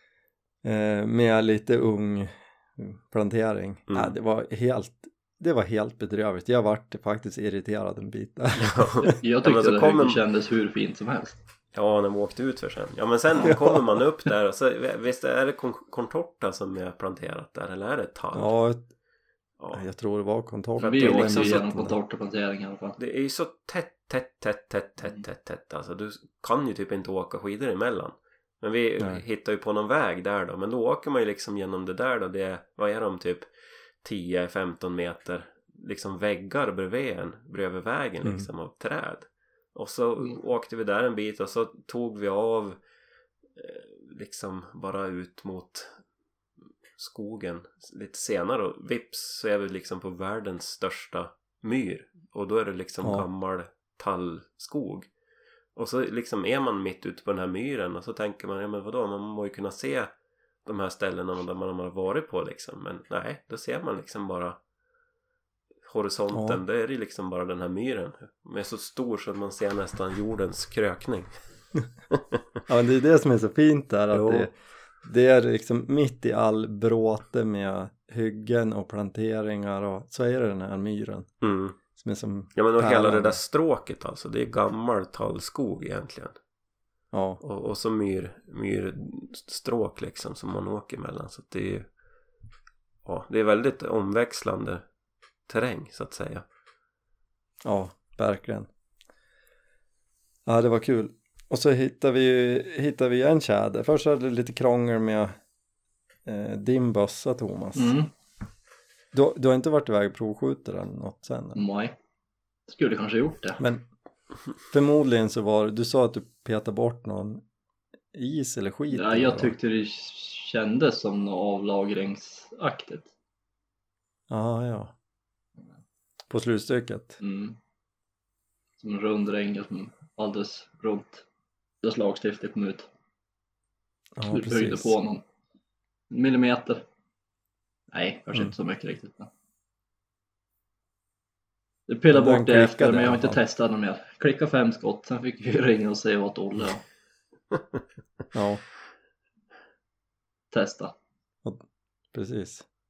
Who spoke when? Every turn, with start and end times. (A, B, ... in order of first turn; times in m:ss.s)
0:00.6-0:09.1 A
0:03.9-0:04.1 B
0:08.6-0:10.2 B
0:09.1-0:11.4 C
0:11.7-0:18.5 B
0:13.4-0:13.8 A
0:18.3-0:18.8 A
0:19.7-0:21.9 A
0:20.8-0:23.0 C
0:20.8-0:21.6 B
0:23.0-0:33.5 B
0:34.0-0:42.8 B
0:38.2-0:38.5 A
0:43.6-0:45.9 B
0:47.0-0:55.1 B
0:53.0-0:53.3 A
0:55.8-1:00.1 B
1:00.6-1:04.6 B
1:05.8-1:11.3 B
1:06.3-1:06.6 A
1:12.1-1:12.4 B
1:12.7-1:14.5 A
1:14.1-1:14.5 B
1:15.0-1:21.3 A
1:21.4-1:21.8 B
1:21.9-1:23.4 A
1:22.5-1:26.4 B
1:27.1-1:27.4 A
1:27.4-1:31.9 B
1:33.0-1:34.8 B
1:35.5-1:36.4 B
1:37.6-1:38.7 A
1:40.4-1:45.3 A
1:46.2-1:47.9 A
1:47.7-1:48.1 C
1:49.1-1:51.6 A
1:51.6-1:51.9 C
1:52.7-1:53.6 C
1:54.7-1:57.4 A
1:58.1-1:59.5 A
1:58.9-2:03.1 C
2:04.3-2:04.9 A
2:06.3-2:07.2 A
2:07.2-2:07.6 C
2:08.8-2:11.2 C
2:11.8-2:12.9 C
2:14.2-2:15.0 A
2:14.3-2:15.2 C
2:16.1-2:16.8 C
2:17.9-2:19.3 C
2:21.9-2:26.8 C
2:22.1-2:23.4 A
2:28.3-2:28.6 A
2:30.5-2:30.9 C
2:32.1-2:32.6 A